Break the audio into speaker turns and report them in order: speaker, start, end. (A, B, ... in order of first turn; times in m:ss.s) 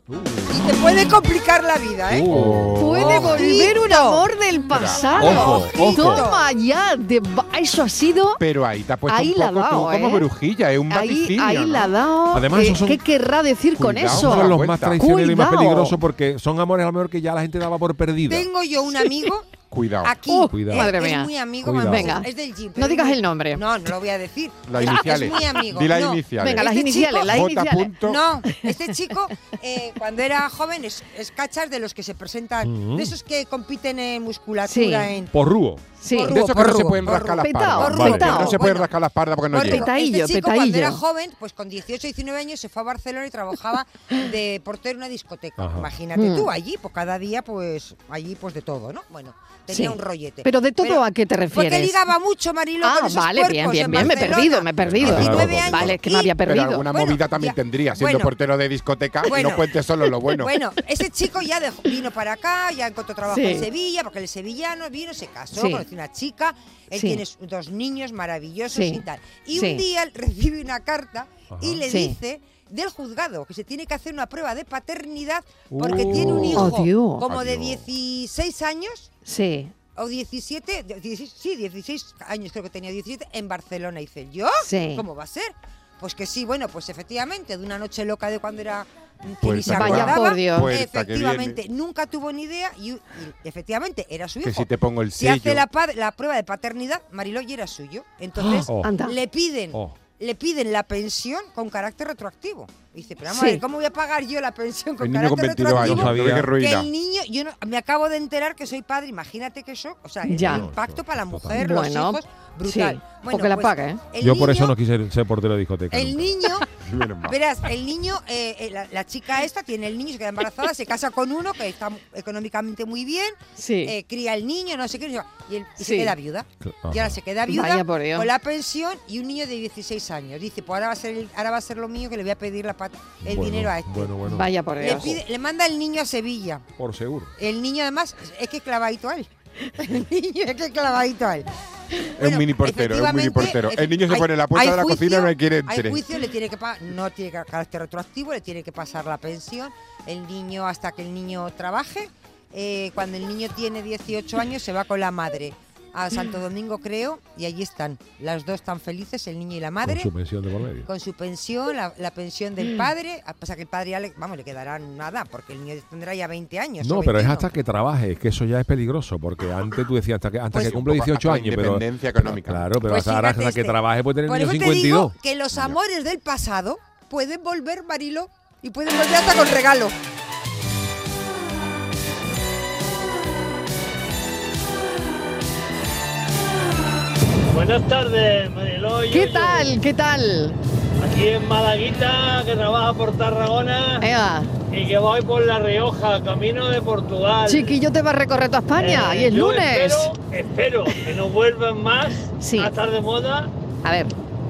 0:00.1-0:00.8 A
0:00.5-0:02.3 B
0:02.1-0:03.0 A
0:02.3-0:03.5 C
0:02.8-0:08.4 D
0:03.0-0:04.3 B
0:04.7-0:05.3 C
0:05.1-0:06.5 B
0:05.2-0:06.3 A
0:08.4-0:11.9 C
0:09.1-0:10.3 D
0:10.9-0:16.0 D
0:12.3-0:13.0 A
0:13.8-0:15.0 C
0:14.1-0:18.5 A
0:18.3-0:19.5 B
0:19.7-0:20.2 C
0:20.0-0:27.4 B
0:20.3-0:21.3 D
0:20.5-0:21.0 A
0:21.6-0:22.2 A
0:21.8-0:23.6 D
0:24.7-0:28.3 C
0:26.4-0:28.0 D
0:28.0-0:35.3 B
0:28.5-0:28.7 D
0:32.6-0:33.1 A
0:34.6-0:35.1 D
0:35.3-0:35.8 A
0:36.0-0:36.4 D
0:36.1-0:38.9 B
0:36.3-0:39.9 C
0:37.4-0:38.6 D
0:37.9-0:38.3 A
0:39.5-0:56.4 B
0:39.6-0:41.0 D
0:45.6-0:45.9 A
0:46.2-0:46.5 D
0:49.7-0:52.1 D
0:52.8-0:56.9 D
0:54.8-0:56.0 A
0:56.4-1:00.6 C
0:56.9-0:58.3 B
0:59.2-0:59.7 B
1:00.4-1:19.1 B
1:03.3-1:03.7 D
1:05.5-1:05.8 D
1:06.9-1:07.2 D
1:08.7-1:09.0 D
1:09.5-1:09.8 D
1:11.5-1:11.8 A
1:11.9-1:12.2 D
1:15.7-1:16.8 A
1:16.0-1:16.5 C
1:16.5-1:17.2 D
1:17.3-1:17.8 C
1:19.2-1:19.7 D
1:20.0-1:54.7 B
1:24.6-1:25.0 D
1:29.4-1:31.6 C
1:29.6-1:30.7 D
1:34.4-1:35.6 C
1:38.4-1:39.2 D
1:38.6-1:39.0 A
1:43.3-1:43.6 D
1:45.0-1:46.9 C
1:45.8-1:46.5 A
1:50.3-1:50.7 D
1:50.4-1:51.6 A
1:51.5-1:54.0 D
1:54.2-1:56.4 A
1:55.9-1:56.7 B
1:56.8-1:57.4 C
1:57.3-2:14.2 B
2:03.6-2:03.9 D
2:05.8-2:06.1 D
2:06.6-2:07.2 A
2:07.5-2:08.3 D
2:13.2-2:14.5 A
2:14.3-2:15.2 D
2:14.8-2:16.6 B
2:16.8-2:17.3 A
2:17.4-2:21.5 B
2:22.2-2:26.0 C
2:22.2-2:40.1 B
2:39.8-2:40.9 A
2:40.8-2:47.5 B
2:46.8-2:55.2 A
2:50.5-2:52.7 C
2:52.8-2:59.9 B
3:07.5-3:09.7 E
3:09.1-3:10.6 D
3:11.0-3:14.1 E
3:14.0-3:14.5 D
3:14.7-3:17.8 E
3:17.5-3:20.1 D
3:18.8-3:23.5 E
3:22.4-3:22.7 D
3:23.8-3:24.1 D